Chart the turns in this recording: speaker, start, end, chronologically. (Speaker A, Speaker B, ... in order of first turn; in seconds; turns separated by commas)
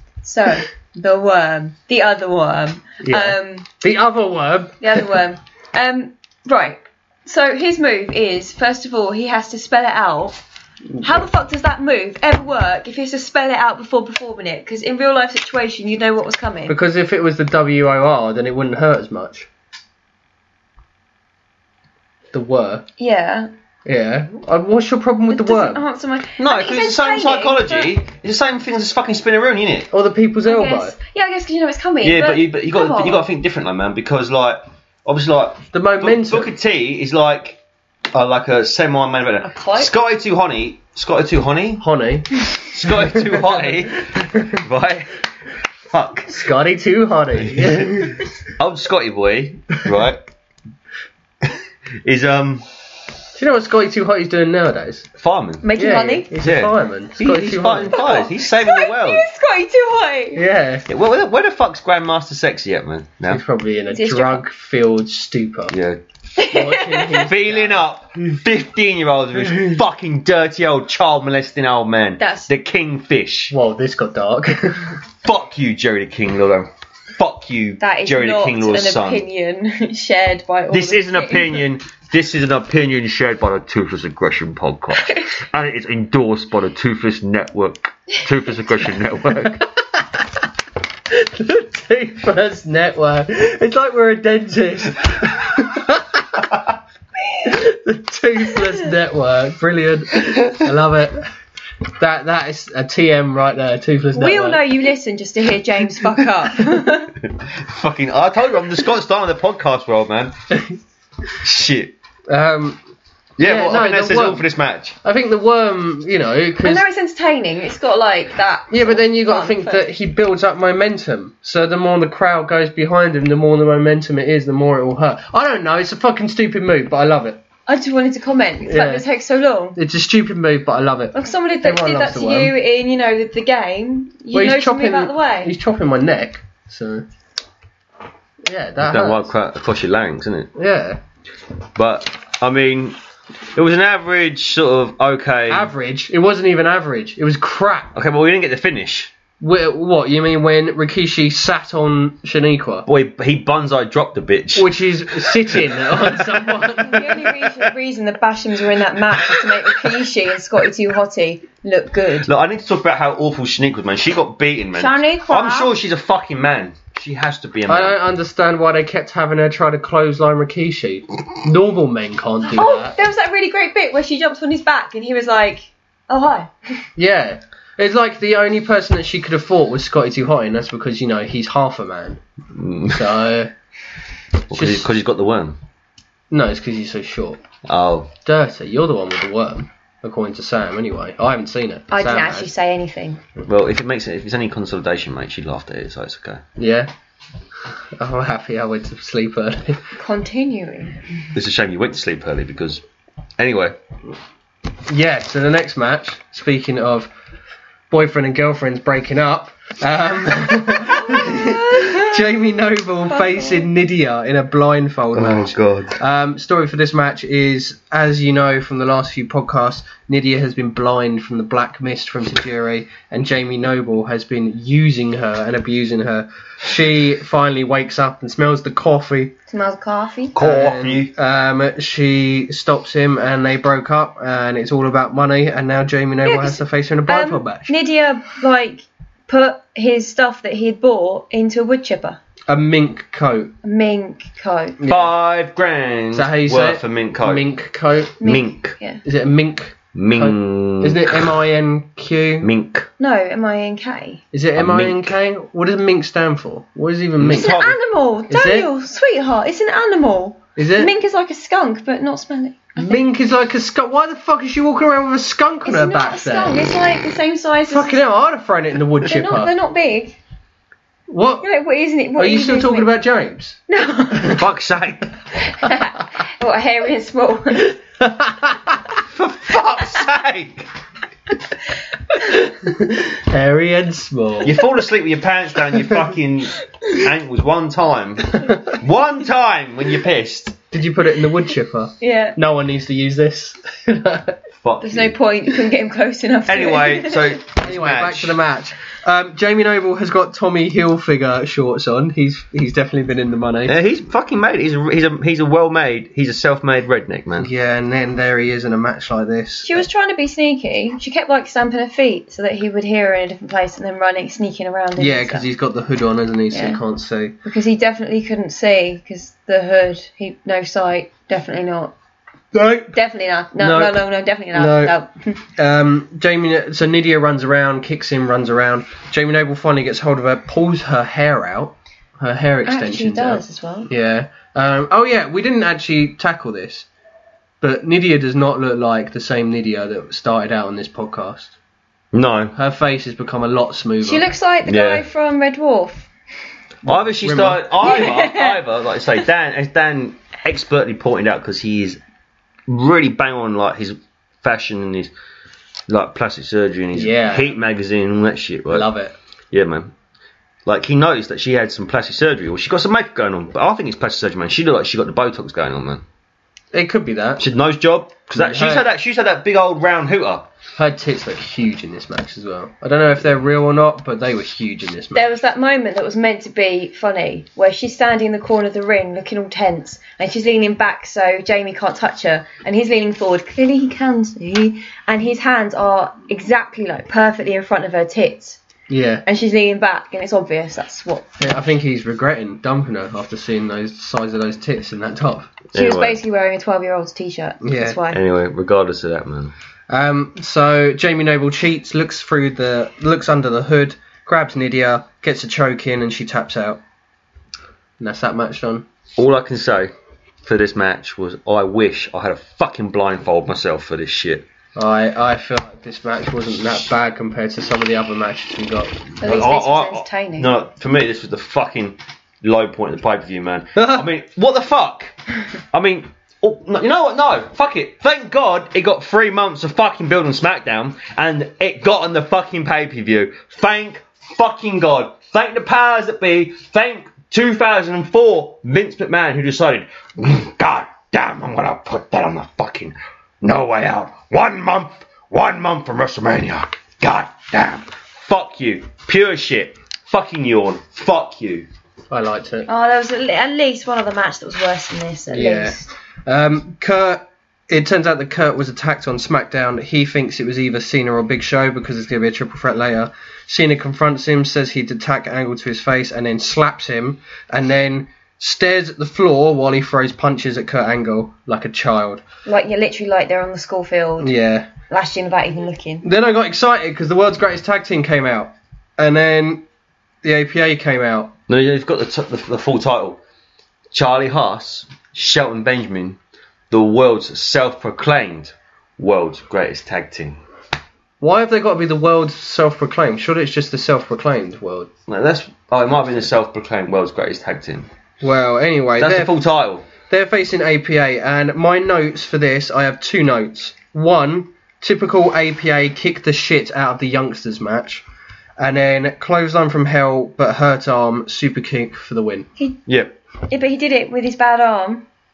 Speaker A: 0.2-3.7, Speaker B: 3.0-5.2, Speaker A: 4.8-10.4, Speaker B: 11.0-11.2, Speaker A: 11.0-16.8, Speaker B: 16.7-19.5, Speaker B: 22.3-22.9, Speaker A: 23.0-23.5, Speaker B: 23.9-25.8, Speaker A: 25.3-27.9, Speaker C: 26.4-29.9, Speaker B: 29.9-30.9, Speaker A: 30.4-33.2, Speaker C: 32.0-37.6, Speaker B: 35.7-36.5, Speaker C: 38.1-41.8, Speaker A: 39.4-39.9, Speaker B: 41.8-42.4, Speaker C: 42.5-45.1, Speaker B: 43.0-43.7, Speaker B: 44.3-44.6, Speaker C: 45.9-46.3, Speaker B: 46.3-48.3, Speaker C: 47.5-48.0, Speaker C: 48.6-50.2, Speaker C: 52.0-52.6, Speaker B: 53.4-55.1, Speaker C: 55.2-55.7, Speaker A: 55.6-56.3, Speaker B: 55.8-58.0, Speaker C: 56.4-59.3, Speaker A: 57.9-60.5, Speaker B: 60.4-60.9, Speaker C: 60.9-63.4, Speaker B: 63.3-65.8, Speaker A: 63.9-64.4, Speaker C: 65.7-66.0, Speaker A: 66.4-67.3, Speaker B: 66.4-67.9, Speaker C: 67.2-73.5, Speaker A: 72.2-72.5, Speaker B: 73.5-75.0, Speaker C: 75.2-79.2, Speaker A: 77.8-81.7, Speaker C: 80.7-89.7, Speaker A: 85.0-85.3, Speaker B: 91.1-96.4, Speaker B: 97.4-101.3, Speaker B: 102.0-104.6, Speaker A: 104.1-107.2, Speaker C: 107.2-110.3, Speaker C: 111.4-112.0, Speaker B: 112.3-112.8, Speaker C: 113.4-115.0, Speaker B: 113.4-114.5, Speaker B: 115.0-116.8, Speaker A: 116.6-119.8, Speaker B: 118.7-127.4, Speaker A: 127.7-129.8, Speaker B: 128.6-129.1, Speaker B: 129.8-132.5, Speaker A: 131.1-135.5, Speaker B: 134.3-137.1, Speaker B: 138.5-139.3, Speaker C: 138.8-140.5, Speaker B: 140.6-141.0, Speaker C: 141.8-143.0, Speaker C: 143.6-145.7, Speaker B: 145.5-147.9, Speaker C: 147.9-149.1, Speaker B: 149.4-152.9, Speaker C: 152.9-156.4, Speaker B: 154.6-157.3, Speaker A: 156.8-162.3, Speaker C: 162.2-168.0, Speaker A: 164.8-165.7, Speaker B: 167.7-173.0, Speaker A: 172.5-176.5, Speaker B: 177.0-182.2, Speaker C: 182.5-183.2, Speaker B: 182.9-183.5, Speaker C: 184.5-185.6, Speaker B: 184.5-184.9, Speaker B: 186.3-187.4, Speaker C: 187.7-188.1, Speaker B: 188.2-192.5, Speaker A: 191.9-193.2, Speaker C: 193.5-196.4, Speaker B: 196.6-196.9, Speaker B: 198.0-199.9, Speaker A: 200.0-201.0, Speaker C: 201.3-202.8, Speaker C: 203.4-203.8, Speaker B: 204.9-207.1, Speaker B: 207.9-229.3, Speaker A: 211.1-212.2, Speaker A: 213.1-213.7, Speaker C: 215.1-216.0, Speaker A: 229.5-230.4, Speaker C: 230.3-231.1, Speaker B: 230.4-237.7, Speaker A: 236.2-242.2, Speaker B: 242.5-243.5, Speaker A: 243.6-244.8, Speaker B: 244.8-245.1, Speaker C: 244.9-247.5, Speaker B: 246.1-248.2, Speaker A: 248.2-249.0, Speaker C: 248.2-248.8, Speaker B: 249.0-252.5, Speaker C: 249.9-251.3, Speaker C: 252.4-252.9, Speaker A: 253.0-254.2, Speaker B: 254.3-257.6, Speaker C: 254.6-255.1, Speaker C: 257.2-257.8, Speaker A: 257.3-263.0, Speaker B: 258.3-258.7, Speaker B: 260.6-260.9, Speaker B: 262.8-266.6, Speaker A: 265.6-268.0, Speaker B: 267.7-269.5, Speaker A: 269.1-270.2, Speaker B: 271.1-271.5, Speaker A: 271.4-272.9, Speaker B: 272.2-273.6, Speaker A: 273.7-274.4, Speaker C: 274.2-275.1, Speaker A: 275.4-277.8, Speaker B: 277.6-278.8, Speaker C: 279.1-280.7, Speaker B: 282.3-284.5, Speaker C: 284.4-290.6, Speaker B: 290.7-294.4, Speaker A: 292.0-292.4, Speaker C: 294.6-295.1, Speaker A: 294.8-297.4, Speaker C: 296.5-298.4, Speaker B: 297.6-303.7, Speaker C: 303.7-307.5, Speaker B: 307.4-309.9, Speaker A: 309.6-315.4, Speaker B: 315.0-317.4, Speaker A: 316.5-316.8, Speaker A: 317.4-321.9, Speaker B: 322.5-322.9, Speaker A: 322.9-325.4, Speaker B: 323.6-324.0, Speaker B: 324.5-325.0, Speaker B: 325.6-336.9, Speaker A: 332.7-333.9, Speaker B: 337.6-341.6, Speaker C: 342.1-342.6, Speaker B: 342.6-344.3, Speaker A: 344.0-346.1, Speaker C: 344.6-345.1, Speaker B: 346.9-347.8, Speaker C: 346.9-352.0, Speaker A: 347.8-348.6, Speaker C: 352.7-355.1, Speaker C: 355.9-358.9, Speaker B: 356.9-357.5, Speaker B: 358.7-359.1, Speaker C: 359.5-359.9, Speaker C: 360.7-366.0, Speaker B: 366.7-367.4, Speaker C: 367.4-370.5, Speaker B: 368.3-368.9, Speaker B: 370.8-375.3, Speaker A: 375.1-388.6, Speaker B: 388.9-389.2, Speaker A: 389.3-391.4, Speaker B: 391.4-395.5, Speaker C: 395.7-396.2, Speaker A: 395.8-398.2, Speaker B: 397.6-398.0, Speaker C: 398.1-399.5, Speaker B: 399.9-406.8, Speaker B: 408.0-408.9, Speaker C: 409.2-409.9, Speaker C: 410.4-414.5, Speaker B: 414.8-419.1, Speaker A: 419.2-420.5, Speaker C: 419.2-425.1, Speaker B: 423.8-424.1, Speaker C: 425.7-451.7, Speaker B: 452.1-452.7, Speaker A: 452.7-455.9, Speaker B: 455.3-472.2, Speaker A: 472.5-474.4, Speaker B: 474.2-474.7, Speaker A: 474.9-476.1, Speaker B: 476.0-479.6, Speaker B: 480.2-481.4, Speaker C: 481.5-483.2, Speaker C: 483.9-486.2, Speaker C: 486.7-490.4, Speaker B: 491.2-494.9, Speaker C: 495.1-497.9, Speaker B: 498.2-499.4, Speaker C: 499.0-499.9, Speaker B: 500.1-508.0, Speaker B: 508.6-512.5, Speaker C: 512.9-513.1, Speaker A: 513.5-515.0